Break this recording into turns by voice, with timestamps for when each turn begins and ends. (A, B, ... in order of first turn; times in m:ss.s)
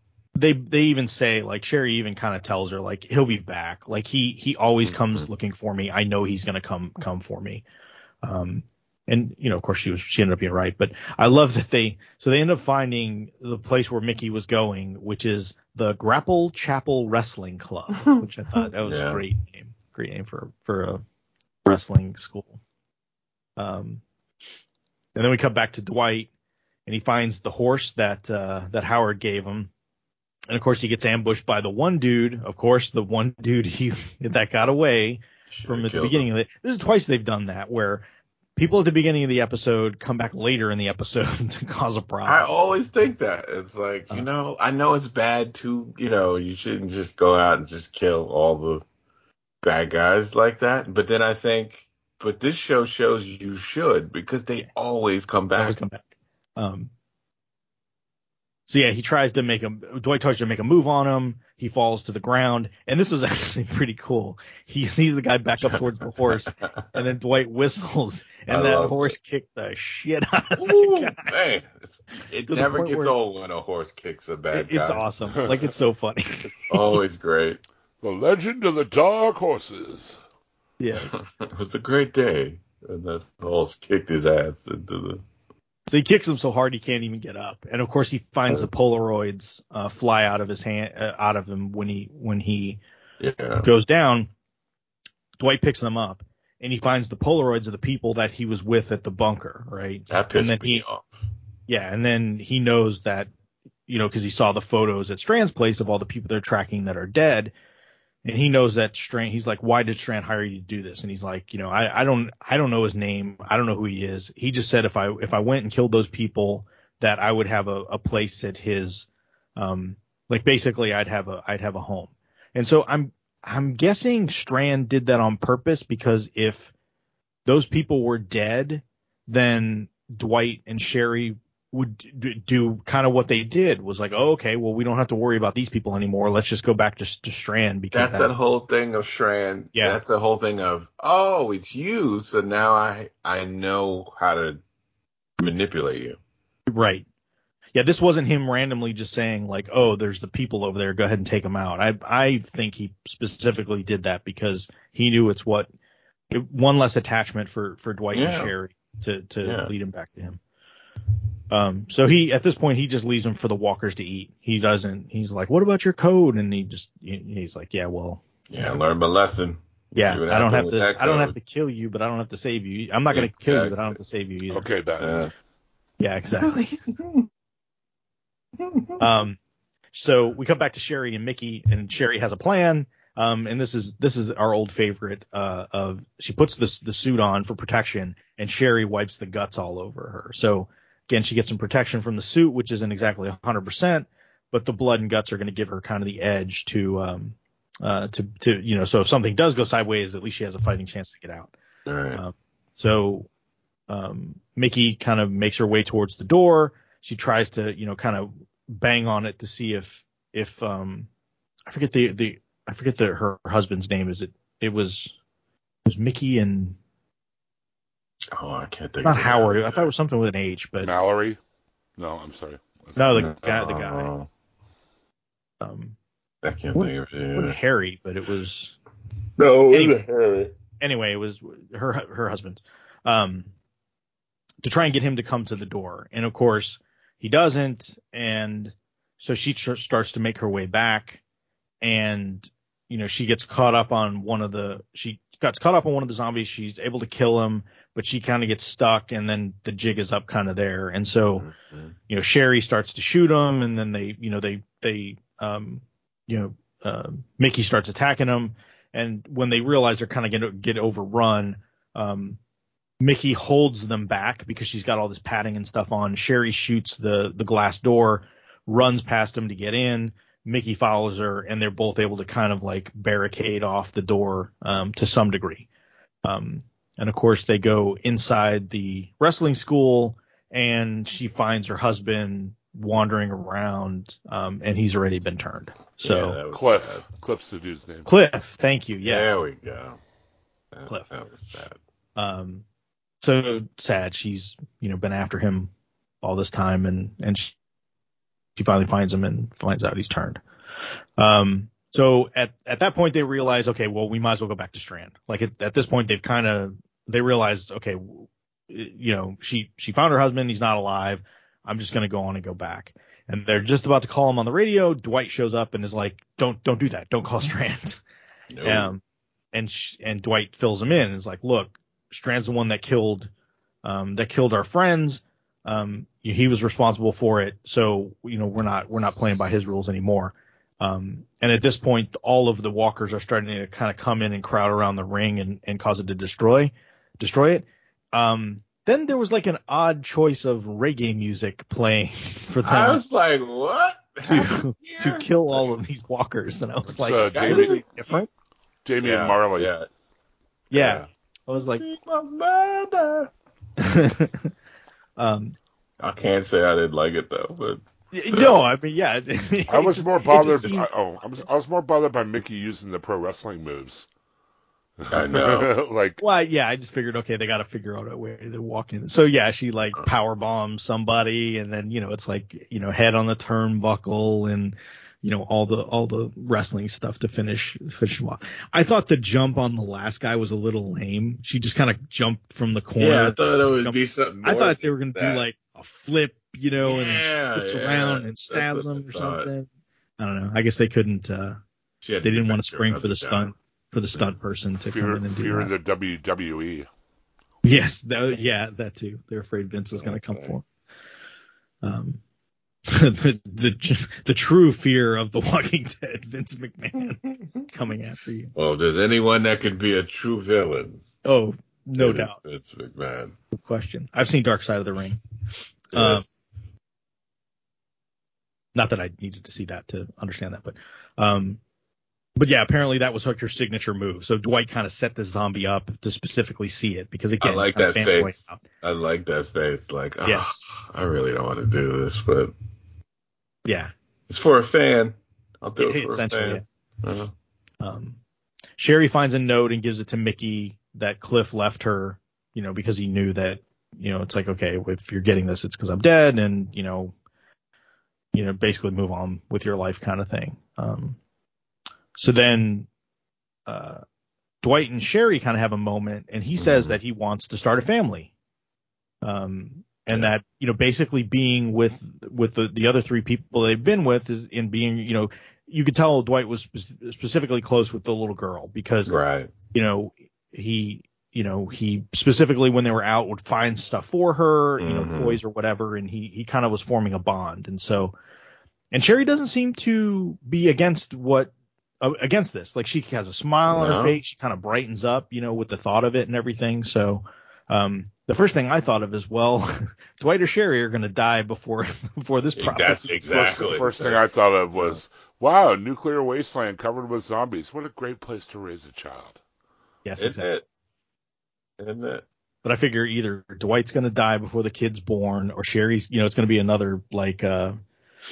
0:00.4-0:07.6 A
0:04.8-0:05.3 B
0:08.2-0:21.0 A
0:18.8-0:19.2 B
0:21.7-0:22.6 A
0:23.6-0:24.0 A
0:25.2-0:26.3 A
0:26.9-0:29.7 A
0:30.5-0:38.0 A
0:35.5-0:36.3 B
0:38.6-0:42.5 A
0:42.3-0:48.8 B
0:49.6-0:55.8 B
0:55.6-0:56.0 A
0:56.6-0:56.9 A
0:58.7-1:11.3 A
1:05.7-1:07.0 B
1:08.5-1:09.2 B
1:10.6-1:15.1 B
1:12.5-1:13.2 A
1:14.5-1:17.0 A
1:16.7-1:17.6 B
1:18.0-1:20.2 C
1:20.8-1:21.2 A
1:21.1-1:25.2 B
1:25.9-1:32.8 A
1:33.2-1:33.7 B
1:33.6-1:34.3 A
1:35.4-1:40.9 A
1:40.1-1:41.2 B
1:41.7-1:43.3 A
1:43.9-1:47.5 A
1:48.2-2:06.7 A
2:07.5-2:18.3 A
2:17.9-2:24.6 B
2:19.8-2:20.0 A
2:25.4-2:26.2 B
2:26.7-2:27.0 A
2:27.8-2:35.7 A
2:36.3-2:40.4 A
2:38.1-2:38.5 B
2:39.4-2:39.7 B
2:41.5-2:48.2 A
2:48.5-2:51.4 B
2:50.0-2:54.7 A
2:53.1-2:54.0 B
2:54.5-2:55.3 C
2:55.0-2:55.3 B
2:56.0-2:56.8 A
2:56.4-2:57.3 B
2:58.6-2:59.0 B
2:59.0-2:59.4 A
2:59.9-3:21.5 A
3:21.9-3:22.2 B
3:22.2-3:23.3 A
3:23.9-3:31.1 A
3:31.7-3:35.1 A
3:35.9-3:36.8 A
3:38.3-3:39.9 B
3:39.0-3:40.9 A
3:40.8-3:41.4 C
3:42.0-3:43.2 C
3:43.0-3:44.1 A
3:43.2-3:44.3 B
3:45.6-3:46.0 A
3:46.4-3:47.6 B
3:46.7-3:48.8 A
3:49.4-3:50.5 B
3:49.7-3:50.0 A
3:50.8-3:53.5 A
3:54.6-4:01.2 A
4:01.8-4:11.5 A
4:11.4-4:12.0 B
4:12.1-4:22.4 A
4:23.0-4:35.7 A
4:36.2-4:46.4 A
4:46.0-4:47.0 B
4:46.5-4:48.1 C
4:48.1-4:49.4 A
4:49.0-4:50.0 B
4:50.7-4:51.8 B
4:52.2-4:52.6 A
4:53.2-4:55.7 A
4:56.2-4:57.6 A
4:58.6-5:00.4 A
5:01.2-5:18.0 A
5:18.5-5:18.9 B
5:18.6-5:19.0 A
5:19.5-5:23.3 A
5:23.8-5:43.0 A
5:42.6-5:45.7 B
5:44.2-5:48.4 A
5:46.9-5:47.8 C
5:47.3-5:47.8 B
5:48.8-5:49.7 C
5:49.0-5:49.9 B
5:50.7-5:51.8 A
5:50.7-5:51.1 B
5:51.8-5:53.3 B
5:53.8-5:54.5 A
5:55.2-5:55.6 A
5:56.0-5:58.6 B
5:58.1-6:00.9 A
5:59.7-6:04.1 C
6:05.0-6:06.2 C
6:05.1-6:05.7 B
6:06.2-6:29.7 A
6:23.0-6:25.4 B
6:26.8-6:29.5 B
6:30.2-6:31.6 A
6:32.0-6:33.5 B
6:32.2-6:35.7 A
6:34.8-6:36.9 C
6:37.6-6:40.7 A
6:40.0-6:40.6 B
6:41.8-6:42.2 A
6:42.9-6:48.5 A
6:48.6-6:51.0 B
6:51.2-6:52.4 A
6:52.0-6:53.4 B
6:53.5-6:55.2 A
6:55.9-6:56.3 A
6:55.9-6:56.4 B
6:58.8-7:01.6 A
7:02.4-7:08.6 A
7:07.4-7:12.5 B
7:13.6-7:13.9 A
7:14.3-7:17.3 B
7:15.8-7:16.6 A
7:17.8-7:18.2 A
7:18.8-7:27.1 A
7:28.3-7:31.2 A
7:32.2-7:32.9 A
7:33.7-7:34.0 A
7:34.6-7:38.3 A
7:36.6-7:37.0 B
7:39.2-7:49.2 A
7:49.1-7:49.5 B
7:49.7-7:58.2 A
7:54.8-7:55.4 B
7:58.9-8:01.5 A
8:02.0-8:13.8 A
8:03.7-8:04.2 B
8:12.6-8:14.2 B
8:13.4-8:19.4 C
8:20.0-8:20.4 A
8:20.2-8:20.7 B
8:21.8-8:22.3 B
8:22.6-8:27.8 A